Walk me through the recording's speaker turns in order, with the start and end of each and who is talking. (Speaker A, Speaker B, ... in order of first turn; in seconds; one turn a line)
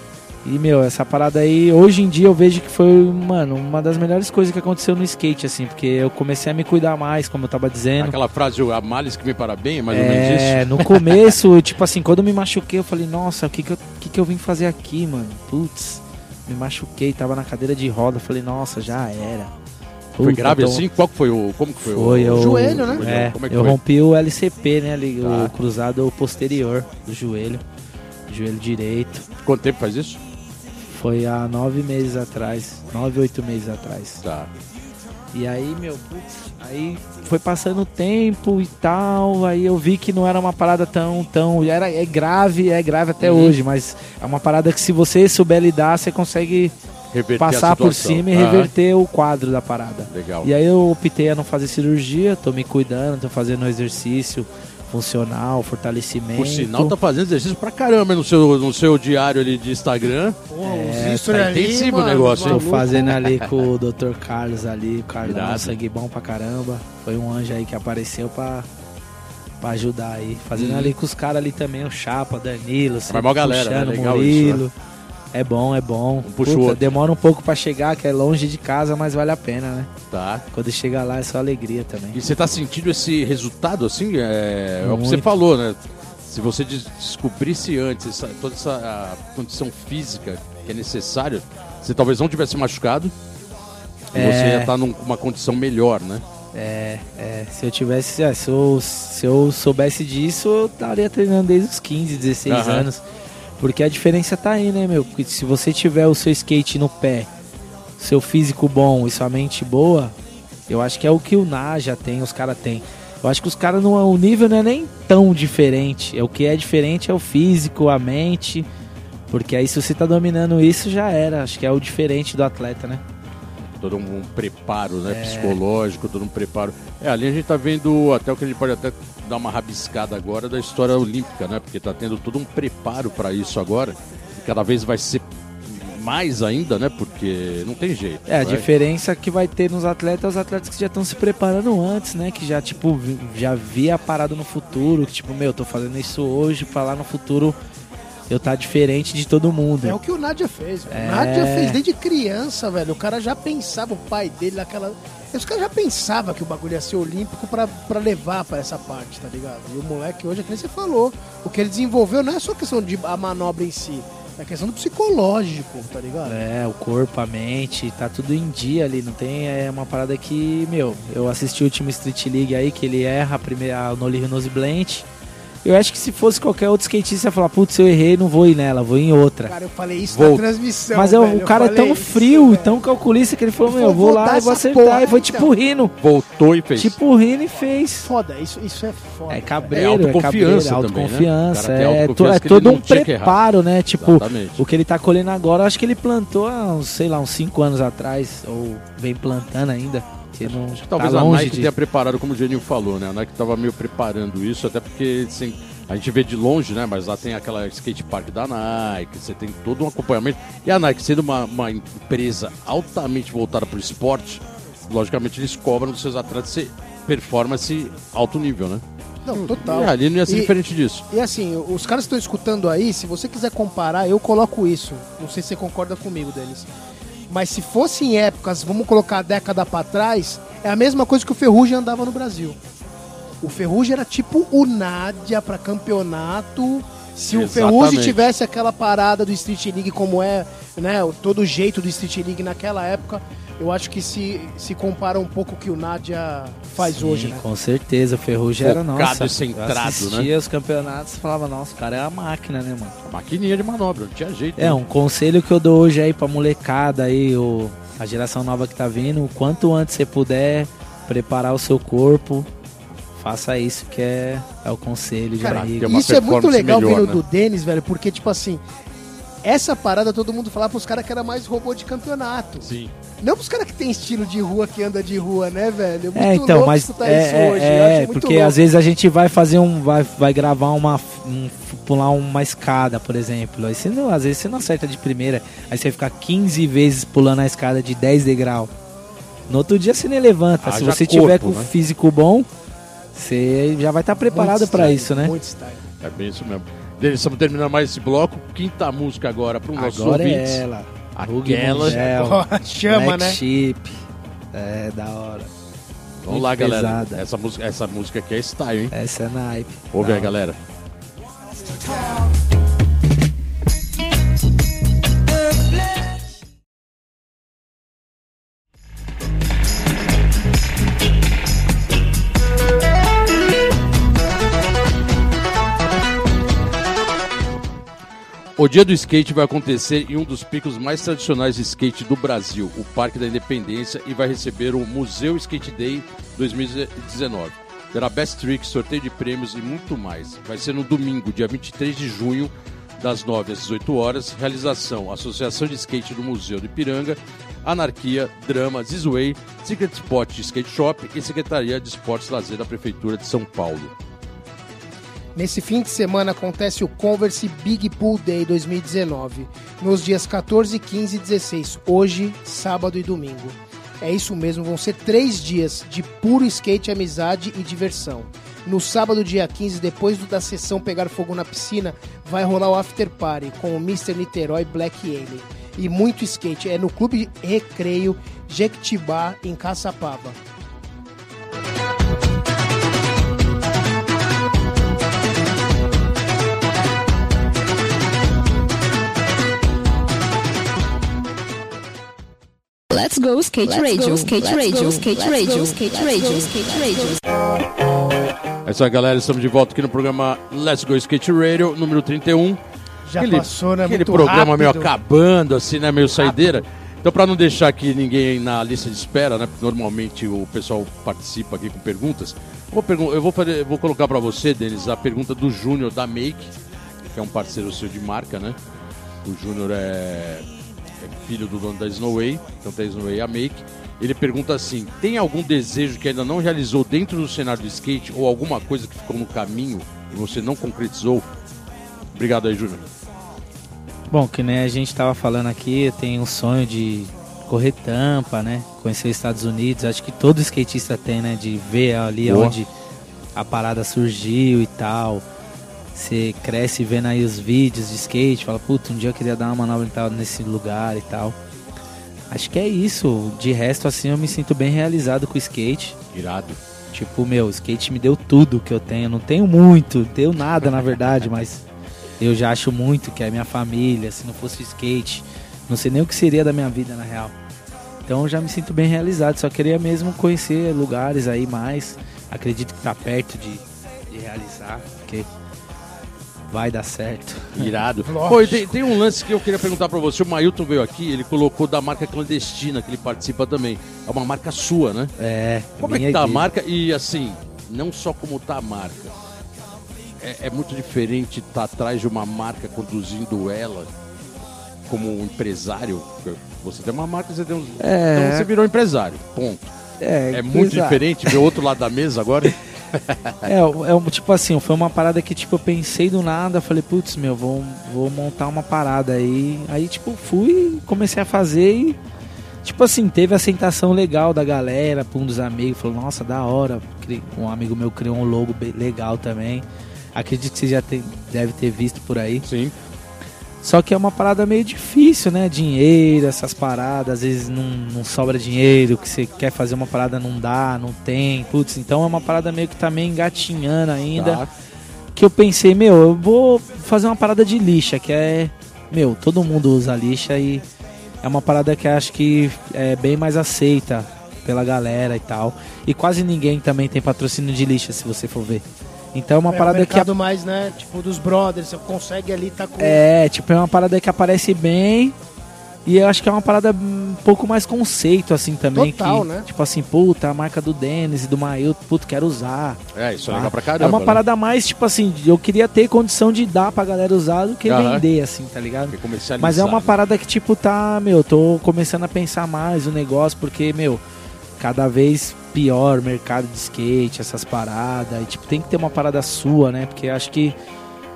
Speaker A: 0.5-8.2
Speaker B: 8.0-11.2
Speaker A: 9.9-19.5
Speaker A: 20.1-20.8
Speaker B: 20.2-23.8
Speaker A: 21.8-27.6
Speaker C: 22.3-23.0
Speaker B: 25.2-25.5
Speaker A: 28.3-29.3
Speaker B: 29.4-30.2
Speaker A: 30.9-34.2
Speaker B: 34.2-34.5
Speaker A: 35.3-46.7
Speaker B: 43.2-43.6
Speaker B: 47.1-48.7
Speaker A: 47.4-56.9
Speaker B: 50.1-50.5
Speaker B: 56.3-60.4
Speaker C: 60.5-63.2
Speaker A: 60.6-61.3
Speaker B: 61.2-63.5
Speaker A: 62.5-68.7
Speaker B: 65.2-65.8
Speaker A: 69.6-74.7
Speaker B: 70.5-71.0
Speaker B: 73.1-74.6
Speaker A: 75.3-79.9
Speaker B: 76.2-76.9
Speaker B: 80.1-80.5
Speaker A: 80.5-82.2
Speaker B: 82.1-93.1
Speaker A: 84.8-85.3
Speaker A: 94.1-94.7
Speaker B: 94.1-96.2
Speaker A: 96.5-103.0
Speaker B: 102.5-102.9
Speaker A: 103.6-107.3
Speaker A: 108.0-110.1
Speaker A: 110.7-118.7
Speaker A: 119.3-123.0
Speaker B: 123.8-138.7
Speaker A: 125.1-125.6
Speaker A: 138.3-147.6
Speaker A: 148.3-150.0
Speaker C: 149.8-166.4
Speaker A: 150.9-151.8
Speaker A: 166.2-175.1
Speaker A: 175.6-179.6
Speaker C: 179.5-182.8
Speaker B: 180.1-180.4
Speaker A: 180.9-185.9
Speaker C: 183.6-185.5
Speaker B: 186.0-187.0
Speaker A: 186.8-188.1
Speaker C: 188.0-189.8
Speaker A: 189.3-201.7
Speaker B: 189.7-193.4
Speaker B: 194.0-194.6
Speaker B: 200.4-218.8
Speaker C: 219.2-220.6
Speaker B: 219.3-221.0
Speaker C: 221.1-226.7
Speaker C: 227.3-232.6
Speaker C: 233.4-247.4
Speaker B: 237.3-238.3
Speaker A: 246.8-252.9
Speaker B: 248.6-250.3
Speaker B: 253.1-254.8
Speaker A: 254.6-262.5
Speaker A: 263.1-265.9
Speaker C: 265.4-268.6
Speaker B: 265.4-267.2
Speaker C: 269.4-272.7
Speaker B: 272.6-272.9
Speaker C: 273.2-278.6
Speaker A: 276.1-288.7
Speaker A: 289.5-292.5
Speaker B: 290.6-291.7
Speaker A: 293.1-295.3
Speaker C: 294.3-295.8
Speaker B: 296.0-300.6
Speaker A: 299.8-304.0
Speaker B: 301.2-302.0
Speaker C: 301.8-303.4
Speaker A: 304.5-305.5
Speaker B: 306.2-308.9
Speaker A: 306.3-307.2
Speaker A: 308.9-310.3
Speaker B: 309.9-310.6
Speaker B: 328.6-353.9
Speaker C: 355.4-380.4
Speaker D: 392.9-397.2
Speaker B: 398.6-402.6
Speaker C: 403.1-404.9
Speaker B: 403.2-416.5
Speaker C: 406.2-406.6
Speaker B: 417.1-418.6
Speaker B: 419.2-420.5
Speaker B: 421.0-431.2
Speaker B: 432.1-432.9
Speaker A: 434.1-442.7
Speaker B: 442.2-442.6
Speaker A: 443.4-445.2
Speaker A: 445.9-451.4
Speaker A: 452.3-456.0
Speaker B: 456.1-456.6
Speaker A: 456.9-461.6
Speaker A: 462.2-467.3
Speaker A: 468.1-475.3
Speaker A: 476.5-477.8
Speaker B: 477.6-485.1
Speaker C: 478.0-478.8
Speaker A: 485.2-486.5
Speaker B: 485.8-489.1
Speaker B: 490.2-493.9
Speaker B: 494.9-499.7
Speaker A: 497.8-498.5
Speaker A: 500.0-501.4
Speaker B: 500.3-503.5
Speaker A: 503.4-512.0
Speaker A: 512.6-522.5
Speaker B: 522.4-522.7
Speaker A: 523.6-534.5
Speaker B: 534.1-534.5
Speaker A: 535.2-540.6
Speaker A: 541.2-550.1
Speaker C: 549.5-553.0
Speaker A: 552.8-555.1
Speaker A: 555.9-574.0
Speaker C: 558.7-559.5
Speaker B: 562.9-564.2
Speaker B: 567.7-568.0
Speaker B: 568.9-570.0
Speaker A: 574.6-580.6